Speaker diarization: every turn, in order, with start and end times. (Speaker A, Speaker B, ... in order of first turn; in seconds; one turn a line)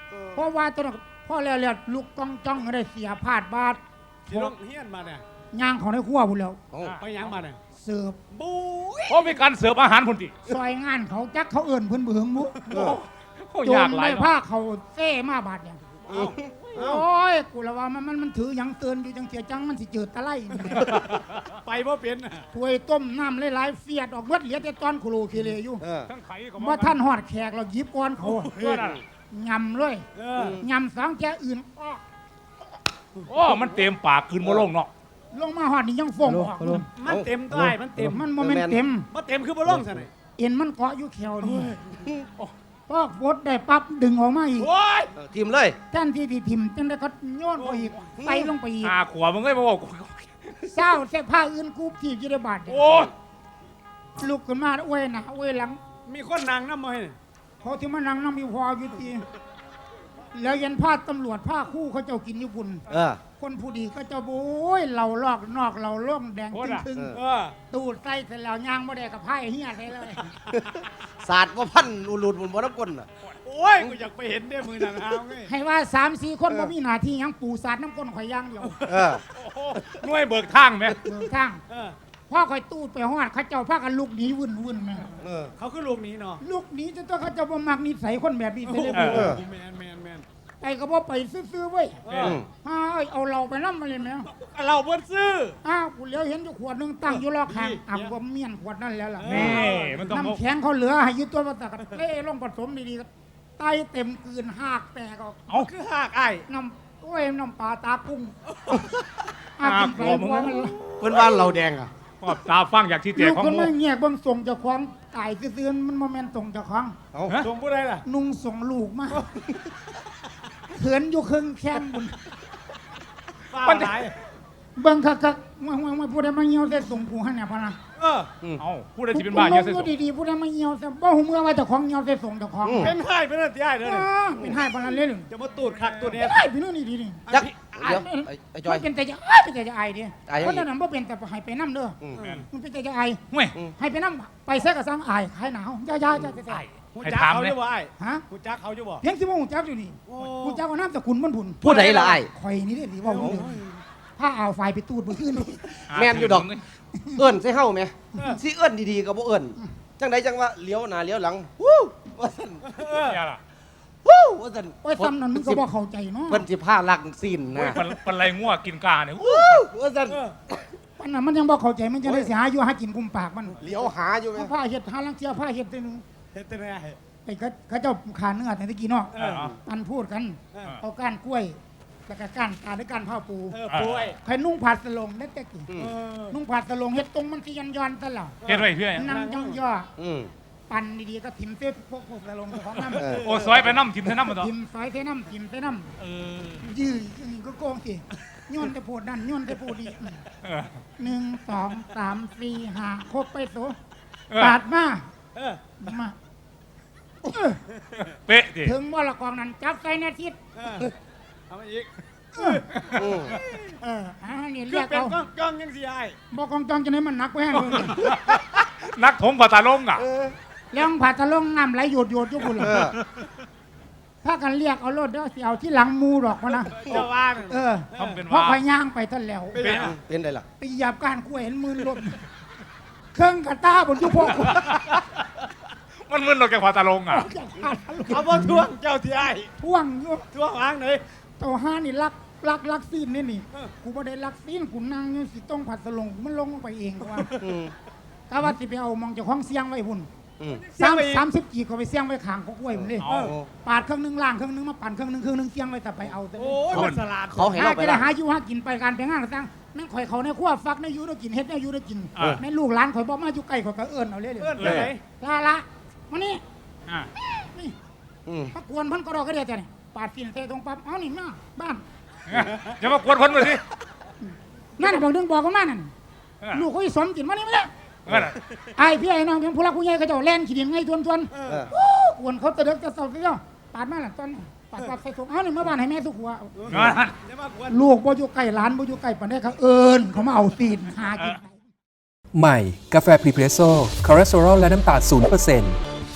Speaker A: 0.3-3.8
Speaker B: 4.3-5.2
Speaker A: 5.5-6.6
Speaker C: 6.7-7.0
Speaker B: 7.0-7.6
Speaker A: 7.7-8.2
Speaker B: 8.3-9.3
Speaker D: 9.1-10.3
Speaker A: 10.5-12.6
Speaker D: 12.7-14.3
Speaker C: 12.7-13.0
Speaker A: 13.6-15.8
Speaker B: 16.0-17.0
Speaker C: 16.1-16.5
Speaker A: 16.7-21.0
Speaker D: 20.8-21.4
Speaker B: 21.7-22.4
Speaker A: 22.5-25.8
Speaker C: 25.8-26.1
Speaker D: 26.1-27.0
Speaker A: 26.6-28.8
Speaker D: 28.4-29.0
Speaker C: 28.7-29.0
Speaker A: 29.3-30.1
Speaker B: 30.2-30.6
Speaker C: 30.4-30.6
Speaker A: 30.6-32.0
Speaker D: 33.2-34.9
Speaker A: 35.3-36.9
Speaker B: 37.0-38.2
Speaker C: 37.1-37.8
Speaker A: 38.0-39.1
Speaker C: 38.4-38.8
Speaker B: 39.1-40.1
Speaker A: 40.4-41.8
Speaker A: 42.9-44.7
Speaker B: 44.6-45.1
Speaker C: 45.2-45.8
Speaker A: 45.9-49.0
Speaker B: 47.6-48.2
Speaker C: 48.2-48.5
Speaker D: 48.8-50.6
Speaker A: 50.6-52.9
Speaker B: 52.7-53.1
Speaker A: 54.2-55.8
Speaker B: 56.1-57.2
Speaker A: 57.6-59.3
Speaker A: 60.3-62.9
Speaker C: 62.9-63.2
Speaker A: 63.4-67.2
Speaker D: 66.5-66.9
Speaker C: 67.0-67.2
Speaker B: 67.2-67.6
Speaker A: 67.7-70.4
Speaker C: 70.5-73.1
Speaker B: 73.4-75.5
Speaker A: 75.5-78.8
Speaker C: 78.8-79.2
Speaker D: 79.4-81.0
Speaker A: 81.0-81.6
Speaker B: 81.7-82.0
Speaker A: 82.3-85.1
Speaker C: 85.2-85.5
Speaker B: 85.6-86.4
Speaker A: 86.4-89.4
Speaker B: 88.7-90.3
Speaker D: 88.9-89.3
Speaker C: 89.1-89.4
Speaker A: 90.6-92.0
Speaker B: 92.1-92.4
Speaker D: 92.1-92.4
Speaker A: 92.6-94.3
Speaker B: 94.3-95.6
Speaker A: 95.6-105.6
Speaker B: 97.1-98.1
Speaker B: 99.2-100.1
Speaker D: 99.2-100.4
Speaker B: 105.6-106.4
Speaker A: 106.5-108.3
Speaker A: 109.6-110.8
Speaker D: 109.6-110.7
Speaker C: 111.0-111.9
Speaker D: 112.2-113.7
Speaker A: 113.2-117.0
Speaker B: 117.4-118.0
Speaker A: 118.0-119.3
Speaker A: 120.7-122.2
Speaker B: 123.5-124.1
Speaker D: 123.6-124.0
Speaker A: 124.8-127.8
Speaker B: 128.0-128.3
Speaker D: 128.6-129.9
Speaker A: 129.1-133.0
Speaker C: 132.7-132.9
Speaker B: 132.8-134.1
Speaker A: 133.8-135.3
Speaker B: 135.3-136.4
Speaker A: 136.0-137.3
Speaker C: 137.3-138.8
Speaker B: 137.3-137.9
Speaker A: 137.8-142.0
Speaker C: 140.3-140.7
Speaker A: 142.5-143.2
Speaker D: 143.3-143.6
Speaker A: 143.8-146.6
Speaker D: 146.5-147.6
Speaker B: 146.9-149.0
Speaker A: 148.0-148.2
Speaker A: 149.0-153.6
Speaker B: 150.1-150.6
Speaker B: 151.6-152.2
Speaker C: 151.6-152.3
Speaker B: 153.0-153.7
Speaker C: 153.2-153.4
Speaker A: 154.2-155.7
Speaker C: 155.9-156.5
Speaker D: 155.9-156.6
Speaker C: 157.2-162.9
Speaker B: 162.7-163.2
Speaker D: 163.1-163.4
Speaker C: 164.0-165.6
Speaker A: 164.8-166.5
Speaker C: 166.3-167.9
Speaker D: 167.6-169.7
Speaker C: 169.2-170.6
Speaker A: 171.0-173.6
Speaker C: 172.1-172.3
Speaker C: 173.6-174.5
Speaker A: 174.3-176.0
Speaker B: 176.3-177.0
Speaker A: 177.2-183.6
Speaker B: 179.1-179.5
Speaker D: 179.2-179.6
Speaker B: 183.5-184.2
Speaker D: 183.7-184.1
Speaker A: 184.2-185.7
Speaker B: 185.8-186.4
Speaker A: 186.3-188.4
Speaker D: 188.4-189.1
Speaker B: 188.4-189.6
Speaker A: 188.9-189.9
Speaker C: 190.0-190.3
Speaker A: 190.7-193.2
Speaker C: 193.0-193.3
Speaker D: 193.0-194.5
Speaker B: 193.2-193.8
Speaker A: 194.3-195.9
Speaker D: 196.0-196.6
Speaker A: 196.6-200.2
Speaker D: 200.4-200.7
Speaker A: 201.0-203.8
Speaker D: 204.3-204.6
Speaker A: 204.4-205.1
Speaker B: 205.4-205.7
Speaker A: 205.8-206.2
Speaker A: 207.2-207.6
Speaker D: 208.0-208.8
Speaker A: 208.6-210.4
Speaker B: 210.6-210.9
Speaker B: 211.5-213.7
Speaker A: 212.4-212.6
Speaker D: 212.8-213.1
Speaker C: 213.0-213.4
Speaker A: 213.8-215.2
Speaker B: 214.7-216.2
Speaker A: 216.3-218.2
Speaker D: 217.5-220.1
Speaker C: 220.0-220.3
Speaker A: 220.7-222.9
Speaker C: 222.6-223.0
Speaker A: 224.2-226.9
Speaker B: 226.7-228.2
Speaker A: 227.5-229.6
Speaker D: 228.0-228.6
Speaker B: 229.6-229.9
Speaker D: 229.6-229.9
Speaker C: 229.6-230.5
Speaker A: 230.6-232.2
Speaker A: 233.1-234.7
Speaker D: 234.3-235.0
Speaker D: 236.0-237.3
Speaker A: 237.1-238.7
Speaker B: 238.1-239.5
Speaker A: 239.6-240.3
Speaker B: 240.3-241.0
Speaker A: 241.4-247.3
Speaker B: 247.1-247.5
Speaker C: 247.4-247.7
Speaker A: 248.3-250.1
Speaker C: 250.4-250.7
Speaker B: 250.6-251.3
Speaker A: 250.8-253.1
Speaker C: 252.8-253.5
Speaker D: 253.0-253.3
Speaker B: 253.1-253.3
Speaker A: 253.6-256.9
Speaker B: 256.4-257.5
Speaker C: 256.7-258.1
Speaker A: 257.5-266.4
Speaker B: 264.4-265.0
Speaker C: 264.6-264.9
Speaker A: 267.2-267.8
Speaker C: 268.3-268.5
Speaker A: 268.5-271.8
Speaker D: 272.3-273.6
Speaker A: 274.8-275.9
Speaker A: 276.5-277.7
Speaker C: 278.1-278.3
Speaker D: 278.1-278.4
Speaker A: 278.8-286.7
Speaker B: 281.4-281.7
Speaker B: 286.6-287.8
Speaker D: 286.7-287.1
Speaker A: 287.7-291.6
Speaker E: 292.3-295.8